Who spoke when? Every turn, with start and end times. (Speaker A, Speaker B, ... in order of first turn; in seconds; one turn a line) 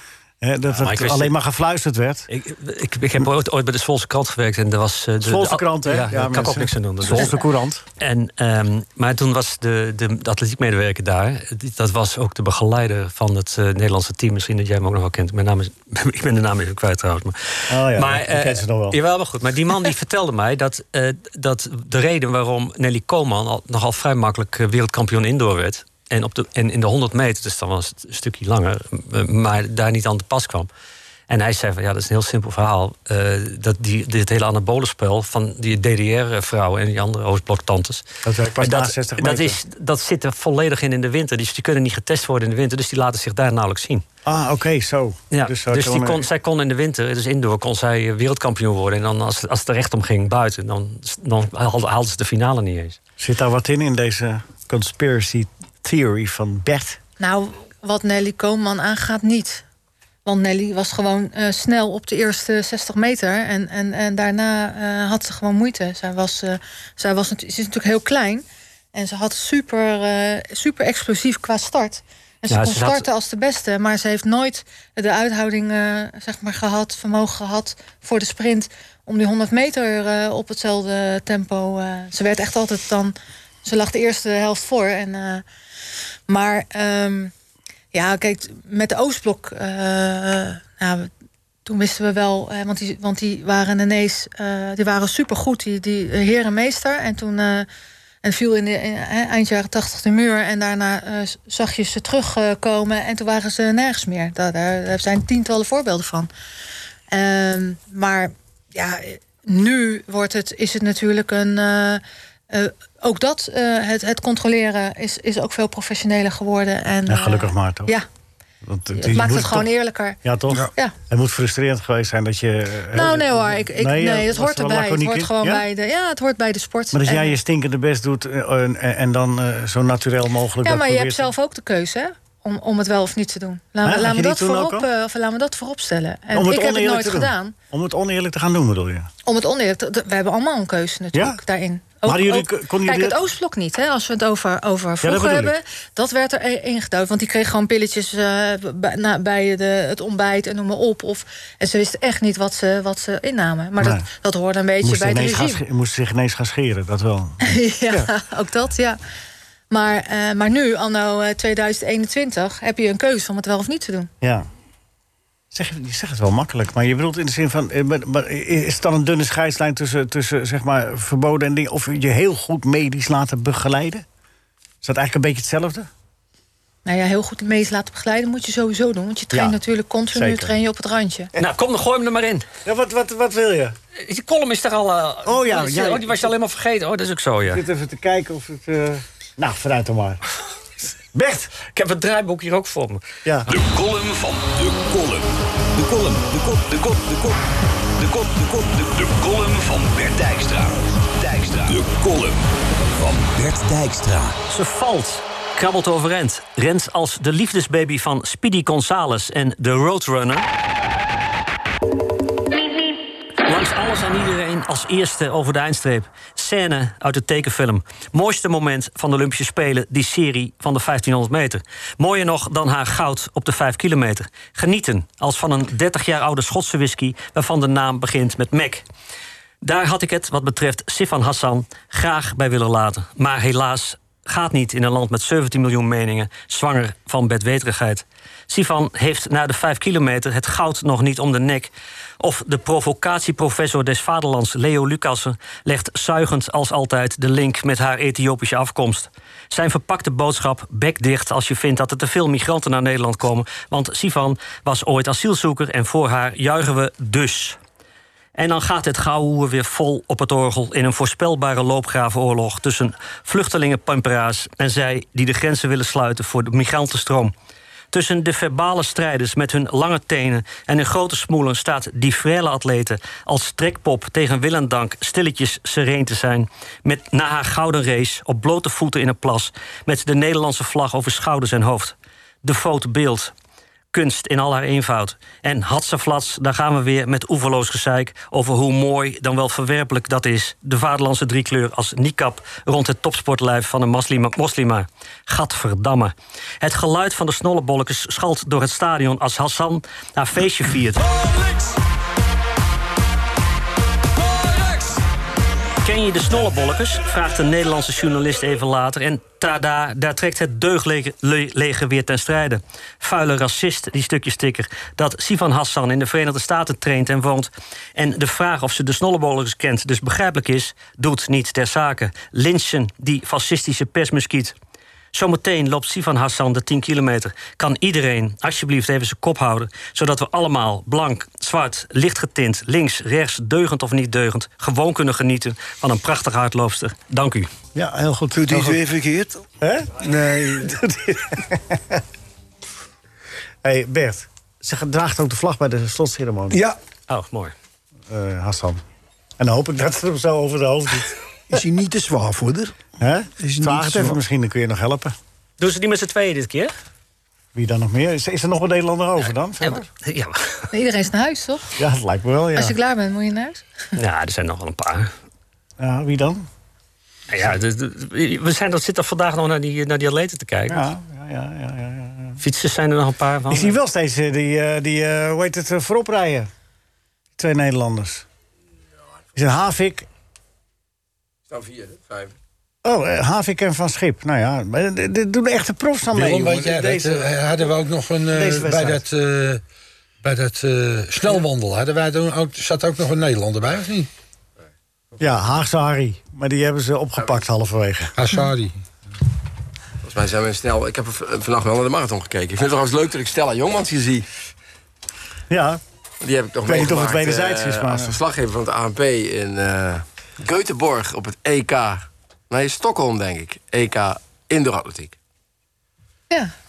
Speaker A: 0.4-2.3
Speaker B: 0.7-1.3
Speaker B: 2.3-7.4
Speaker A: 5.2-7.8
Speaker B: 8.0-30.7
Speaker A: 17.7-19.0
Speaker B: 31.3-38.0
Speaker A: 38.2-39.6
Speaker B: 38.6-44.0
Speaker A: 44.2-46.3
Speaker B: 45.3-53.0
Speaker A: 53.2-57.0
Speaker C: 57.2-59.6
Speaker C: 60.2-85.4
Speaker B: 72.5-73.0
Speaker C: 86.3-87.3
Speaker C: 87.9-91.1
Speaker C: 91.6-97.7
Speaker C: 98.2-106.3
Speaker C: 107.1-118.0
Speaker A: 117.1-118.0
Speaker A: 118.6-119.7
Speaker C: 118.9-120.2
Speaker A: 120.2-125.6
Speaker C: 122.9-127.3
Speaker A: 126.9-131.3
Speaker C: 130.6-137.5
Speaker A: 133.8-134.9
Speaker A: 136.3-139.1
Speaker C: 139.2-155.6
Speaker A: 141.1-141.4
Speaker A: 142.0-143.2
Speaker A: 145.0-145.6
Speaker A: 153.8-154.1
Speaker A: 154.8-158.1
Speaker C: 157.4-159.0
Speaker C: 159.7-164.1
Speaker A: 164.2-164.4
Speaker A: 165.5-174.0
Speaker A: 174.8-175.9
Speaker C: 176.8-181.3
Speaker A: 179.3-179.6
Speaker A: 180.1-180.5
Speaker B: 181.4-182.4
Speaker A: 182.6-183.8
Speaker B: 184.0-187.6
Speaker A: 185.2-186.3
Speaker A: 187.5-190.2
Speaker A: 191.1-191.5
Speaker B: 191.6-193.1
Speaker A: 193.2-193.5
Speaker D: 193.5-197.4
Speaker D: 198.0-204.4
Speaker B: 204.5-210.4
Speaker B: 213.4-228.8
Speaker B: 229.6-257.6
Speaker B: 258.3-267.3
Speaker B: 267.9-283.3
Speaker B: 283.9-301.5
Speaker B: 305.8-324.5
Speaker B: 325.1-337.5
Speaker A: 337.7-338.8
Speaker E: 338.3-339.4
Speaker A: 339.6-340.1
Speaker E: 340.0-340.7
Speaker A: 340.6-342.0
Speaker A: 343.6-346.6
Speaker E: 346.5-346.8
Speaker B: 347.1-347.5
Speaker A: 348.1-348.8
Speaker A: 349.4-351.1
Speaker E: 351.5-352.7
Speaker A: 353.0-355.1
Speaker E: 353.4-354.2
Speaker B: 355.6-356.7
Speaker A: 357.5-359.9
Speaker B: 359.6-360.7
Speaker C: 360.7-361.7
Speaker A: 361.8-362.7
Speaker C: 362.6-363.6
Speaker B: 364.0-365.1
Speaker A: 365.8-366.5
Speaker B: 367.3-370.8
Speaker A: 370.7-372.4
Speaker B: 372.4-373.8
Speaker A: 373.5-376.5
Speaker A: 377.4-378.2
Speaker A: 379.4-380.1
Speaker F: 381.5-382.3
Speaker A: 382.8-387.7
Speaker G: 386.1-389.6
Speaker A: 388.3-389.0
Speaker G: 390.2-394.1
Speaker A: 395.2-398.1
Speaker G: 398.2-398.8
Speaker F: 400.0-404.3
Speaker A: 405.5-405.8
Speaker F: 406.2-415.1
Speaker A: 406.6-408.2